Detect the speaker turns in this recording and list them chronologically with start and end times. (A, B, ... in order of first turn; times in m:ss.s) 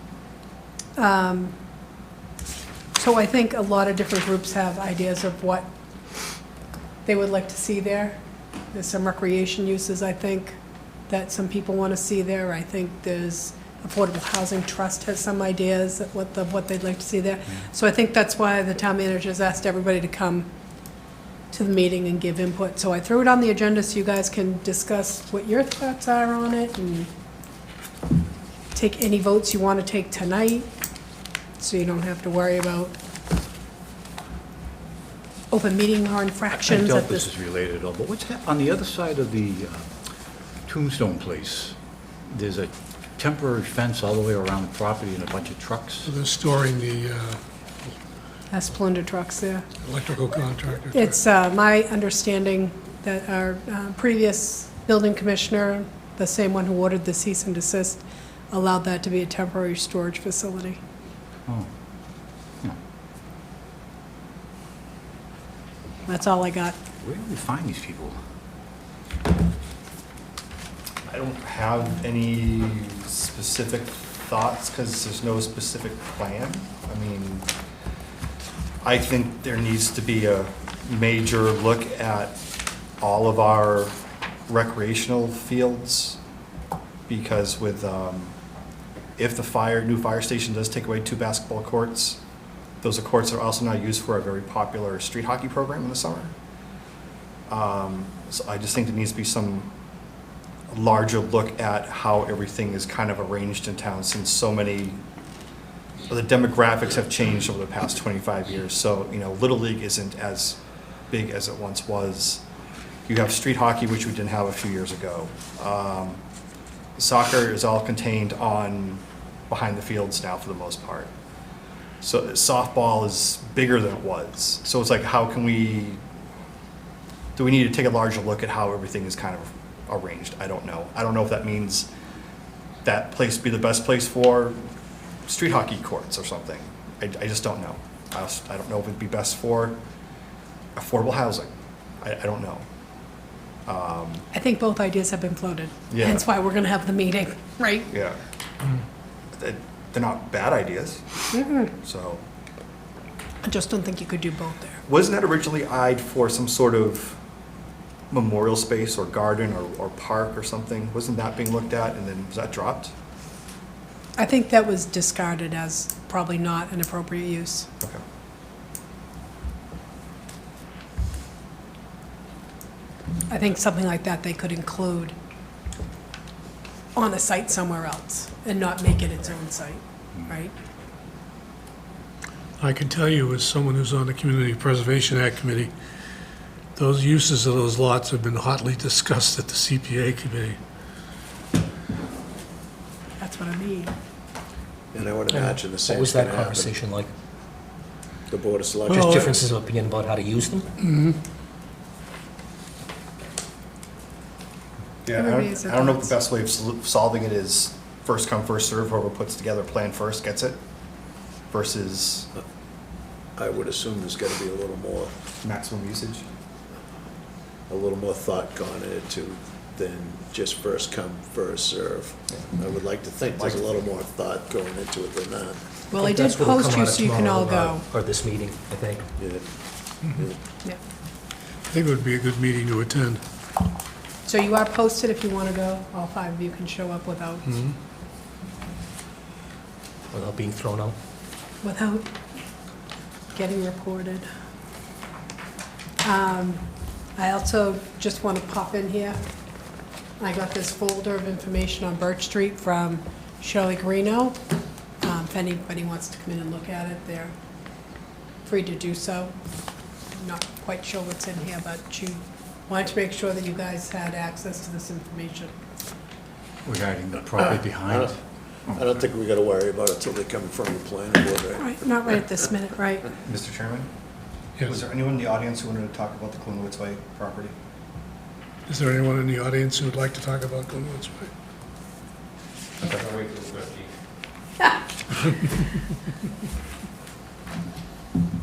0:01.0-0:01.5 A
0:03.0-0:05.7 A
0:07.0-0:08.2 A
0:08.7-0:10.6 A
0:11.1-0:20.5 A
0:21.5-0:27.1 A
0:28.7-0:30.7 A
0:31.6-0:33.0 A
0:35.5-0:37.3 A
0:36.5-0:39.8 B
0:40.6-0:41.7 B
0:42.3-0:46.1 B
0:46.0-0:47.4 C
0:48.5-0:49.6 A
0:49.8-0:51.1 C
0:50.9-1:00.8 A
1:06.1-1:06.8 A
1:07.0-1:08.2 B
1:11.1-1:17.5 D
1:18.8-1:22.4 D
1:23.0-1:23.9 D
1:24.5-1:26.2 D
1:27.1-1:28.3 D
1:29.2-1:32.2 D
1:32.8-1:36.3 D
1:37.5-1:39.7 D
1:40.7-1:45.0 D
1:46.1-1:50.6 D
1:51.1-1:52.4 D
1:53.0-1:56.2 D
1:57.0-2:01.1 D
2:02.0-2:06.0 D
2:07.4-2:11.9 D
2:12.8-2:14.7 D
2:15.3-2:19.8 D
2:20.8-2:21.5 D
2:22.0-2:22.6 D
2:23.7-2:24.2 D
2:24.3-2:27.9 A
2:25.9-2:26.2 D
2:27.9-2:28.2 D
2:29.4-2:31.0 D
2:31.3-2:31.7 A
2:31.8-2:32.2 D
2:33.4-2:34.8 A
2:34.9-2:37.2 D
2:38.1-2:42.9 D
2:44.2-2:47.7 A
2:53.3-2:55.1 A
2:57.0-3:00.5 A
3:02.6-3:05.7 C
3:06.8-3:10.6 C
3:13.2-3:13.9 A
3:14.9-3:16.8 E
3:15.3-3:17.1 F
3:18.3-3:19.5 E
3:18.9-3:19.3 C
3:18.9-3:20.7 F
3:20.8-3:21.2 C
3:25.0-3:30.6 D
3:25.1-3:26.1 A
3:31.5-3:32.3 D
3:33.4-3:35.1 E
3:35.4-3:36.2 D
3:37.7-3:45.6 E
3:43.3-3:43.7 D
3:45.9-3:47.8 A
3:45.9-3:49.0 F
3:49.2-3:49.4 E
3:50.1-3:50.3 E
3:51.7-3:53.2 C
3:54.2-3:57.6 A
3:57.4-3:57.7 C
4:00.1-4:00.9 F
4:01.6-4:02.0 A
4:03.3-4:04.2 A
4:06.0-4:06.6 A
4:07.2-4:09.2 A
4:10.2-4:14.4 A
4:15.0-4:17.3 A
4:18.4-4:19.3 A
4:20.1-4:25.5 A
4:26.6-4:28.2 B
4:27.4-4:28.1 E
4:28.7-4:31.7 E
4:31.6-4:33.1 A
4:33.2-4:33.9 D
4:34.6-4:37.5 D
4:38.7-4:41.3 C
4:43.0-4:43.8 F